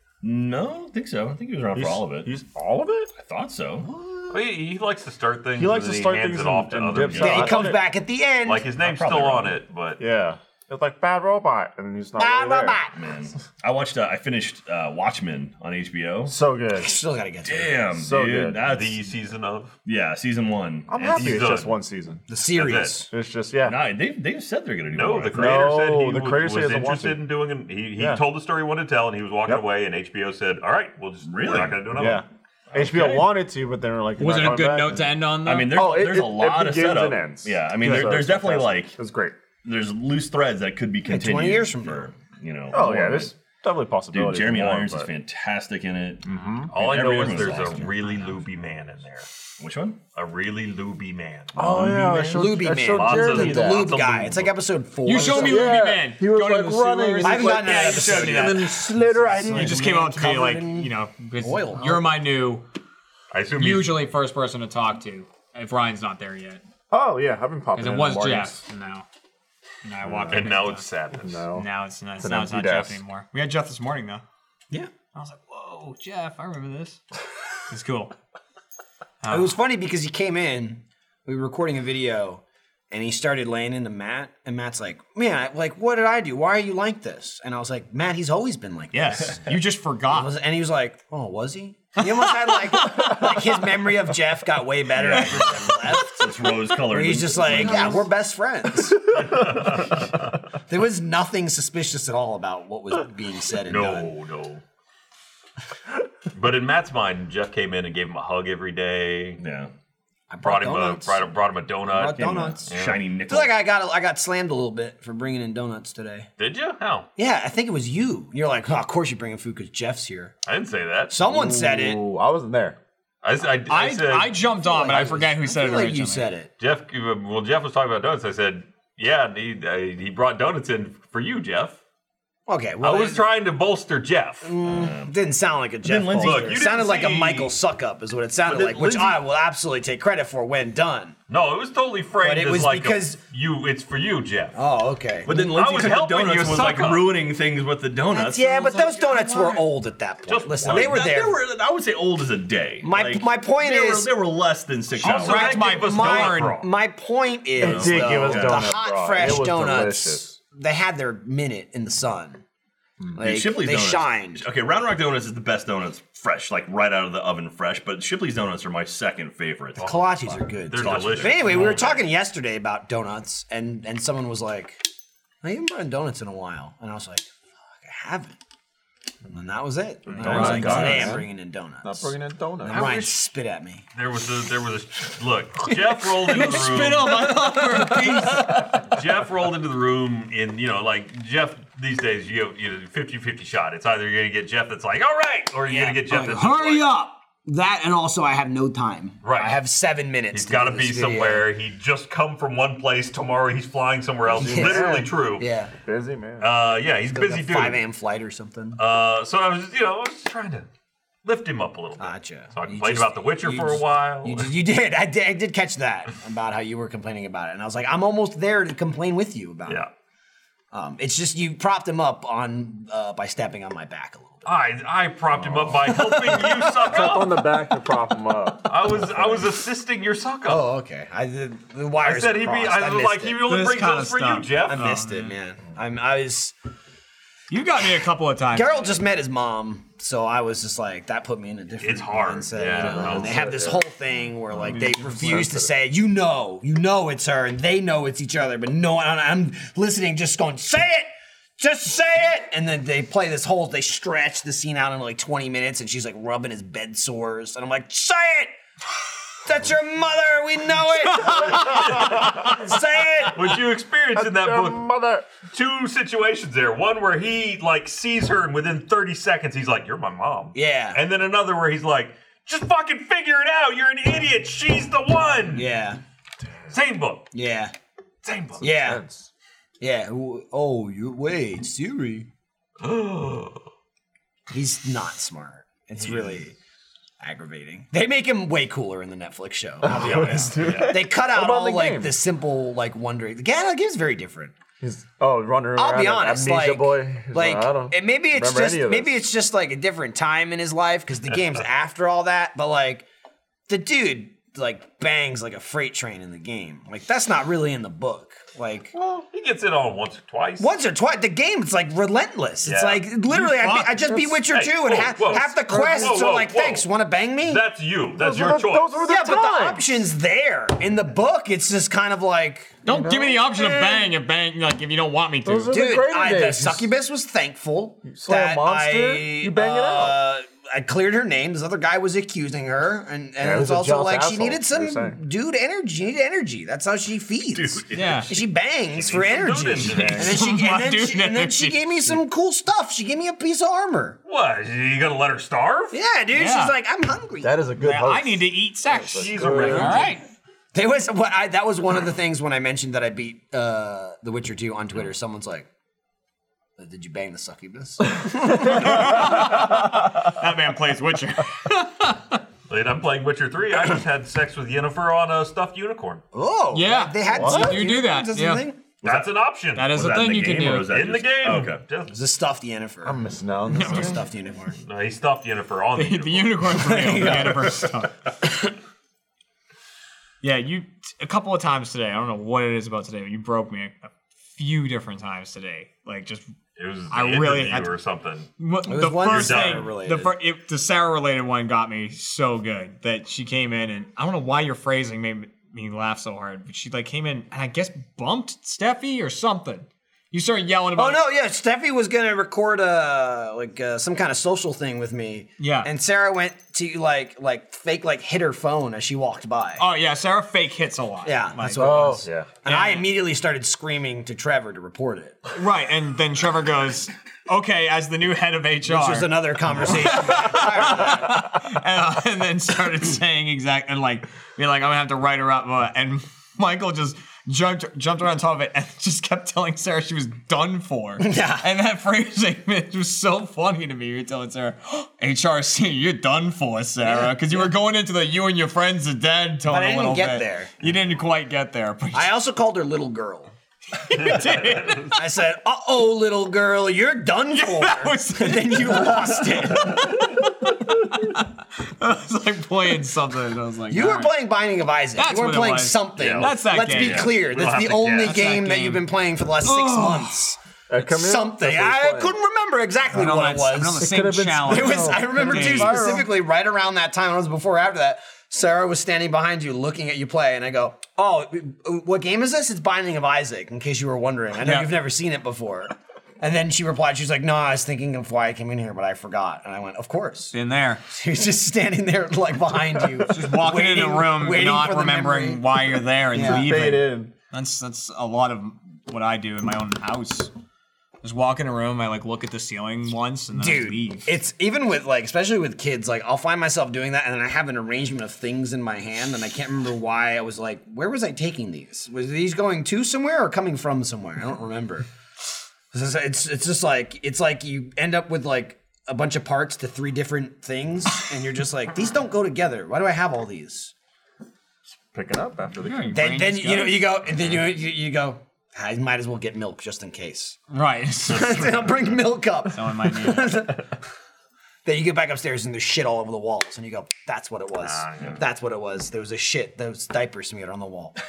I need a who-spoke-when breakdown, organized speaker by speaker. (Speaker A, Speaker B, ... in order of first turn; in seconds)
Speaker A: 0.2-2.3, 3.1-3.9, 7.0-7.6, 8.8-9.6, 12.9-16.4, 17.4-19.1, 19.9-21.7, 23.6-25.7, 31.2-32.0, 32.7-33.3, 35.4-39.0, 39.6-43.4, 44.1-48.0, 49.6-50.0, 51.6-52.4, 53.8-54.5, 95.0-98.1, 109.4-109.7, 112.2-113.5, 134.6-135.2, 135.8-136.6, 138.4-139.2, 145.2-148.8, 150.6-155.6, 157.6-158.7, 163.2-171.9, 180.2-181.0, 337.6-338.4, 369.0-371.8, 456.2-457.3
Speaker B: 1.8-3.1, 5.6-7.8, 10.0-12.8, 16.3-16.9, 18.0-18.6, 20.9-22.2, 23.1-23.8, 25.3-27.2, 28.0-28.2, 31.9-39.4, 42.7-45.1, 46.2-47.8, 51.5-53.9, 55.2-59.8, 66.9-68.6, 70.0-70.5, 71.2-71.7, 72.2-73.0, 121.2-122.8, 157.6-160.4, 180.2-181.3, 181.8-182.9, 204.3-205.1, 205.8-206.5, 225.3-226.0, 226.8-229.5, 242.8-243.8, 244.5-245.7, 261.6-262.5, 264.1-265.3, 278.6-279.3, 289.8-292.2, 294.8-299.2, 308.9-309.2, 314.1-314.4, 315.4-316.2, 318.2-319.9, 322.9-324.1, 325.4-326.9, 328.1-330.2, 333.4-335.2, 339.8-340.4, 347.4-350.1, 358.6-359.1, 367.3-367.9, 373.0-374.2, 411.8-412.6, 460.9-462.4, 464.0-466.3, 486.4-487.3, 515.0-516.4
Speaker C: 4.3-7.7, 8.4-10.0, 18.6-19.8, 21.1-21.7, 22.5-23.0, 24.9-32.2, 33.0-33.2, 46.7-49.3, 50.1-51.6, 52.9-54.4, 63.3-64.0, 70.3-71.4, 99.2-100.3, 103.7-104.6, 106.3-109.4, 110.4-113.0, 116.4-117.1, 120.5-121.2, 123.2-124.4, 126.6-131.8, 132.8-134.5, 136.2-137.5, 141.3-144.6, 145.3-147.1, 150.3-151.0, 155.0-156.7, 170.7-172.1, 180.1-181.1, 182.7-183.1, 183.9-187.3, 188.7-196.9, 199.2-199.6, 200.3-205.4, 206.4-207.8, 208.8-210.7, 211.2-214.5, 224.4-227.5, 228.7-230.7, 232.0-234.9, 241.8-243.5, 261.6-262.5, 263.3-264.8, 265.4-275.7, 276.7-277.3, 278.2-278.7, 282.8-283.6, 286.0-286.3, 289.9-290.9, 309.3-310.7, 312.6-313.1, 314.5-316.9, 317.4-319.0, 338.9-340.4, 344.3-346.0, 349.1-350.2, 362.7-366.2, 369.0-369.9, 370.8-372.2, 374.8-376.7, 386.8-388.5, 389.2-389.9, 444.2-445.1, 456.2-458.4, 527.8-528.4
Speaker D: 7.2-8.7, 12.2-12.9, 16.8-17.9, 22.3-23.1, 41.1-42.1, 52.2-55.7, 57.2-62.0, 79.3-89.5, 90.1-96.3, 96.9-99.0, 100.7-104.1, 110.3-111.2, 111.9-112.7, 113.3-116.3, 117.2-120.3, 121.1-122.0, 124.6-126.5, 132.5-133.2, 134.4-141.2, 142.2-143.2, 144.6-145.5, 148.1-151.4, 152.8-154.1, 155.2-162.4, 163.2-164.4, 169.8-174.8, 175.4-177.3, 177.8-178.4, 179.3-183.8, 195.7-201.5, 204.3-205.7, 207.1-208.8, 212.0-219.8, 220.7-224.5, 225.9-226.5, 230.5-233.4, 234.7-236.6, 238.5-258.5, 259.4-263.4, 270.6-271.0, 275.5-276.0, 277.3-277.7, 278.6-279.0, 279.8-282.3, 284.5-286.6, 287.2-294.6, 295.8-303.1, 303.7-308.9, 310.6-317.6, 319.1-322.8, 325.7-344.2, 345.9-347.6, 350.7-355.7, 356.8-359.6, 366.3-368.8, 372.1-374.8, 376.8-377.9, 388.9-390.4, 401.0-409.8, 411.2-415.4, 418.9-421.4, 431.2-431.7, 437.0-437.7, 439.7-440.7, 442.1-443.5, 445.1-450.3, 453.9-464.1, 464.6-480.5, 481.1-485.7, 486.3-486.7, 493.6-505.1, 505.9-513.9, 516.1-520.6, 521.3-524.0, 524.9-531.2
Speaker E: 34.2-35.8, 55.0-58.8, 59.5-62.6, 63.6-66.6, 67.8-69.0, 69.8-70.9, 71.5-74.2, 75.1-77.0, 77.7-78.1, 79.2-79.6, 88.9-90.3, 92.0-93.5, 95.0-96.2, 123.7-126.3, 148.7-149.6, 155.1-156.6, 180.3-180.9, 186.3-188.8, 233.5-235.3, 237.5-239.0, 244.7-245.4, 313.3-314.1, 322.9-325.7, 337.9-338.3, 339.9-341.8, 346.3-346.8, 347.8-350.2, 358.6-362.4, 366.7-368.6, 369.8-370.9, 373.7-374.2, 376.0-378.1, 380.4-386.5, 387.1-387.9, 388.6-401.2, 405.6-405.9, 409.8-412.1, 412.6-413.1, 415.6-442.4, 443.9-445.2, 447.5-454.3, 455.2-457.3, 458.2-459.1, 459.6-460.4, 463.1-466.2, 474.6-474.9, 480.5-481.0, 483.3-490.5, 491.2-494.3, 515.8-517.1, 520.7-521.9, 522.7-523.6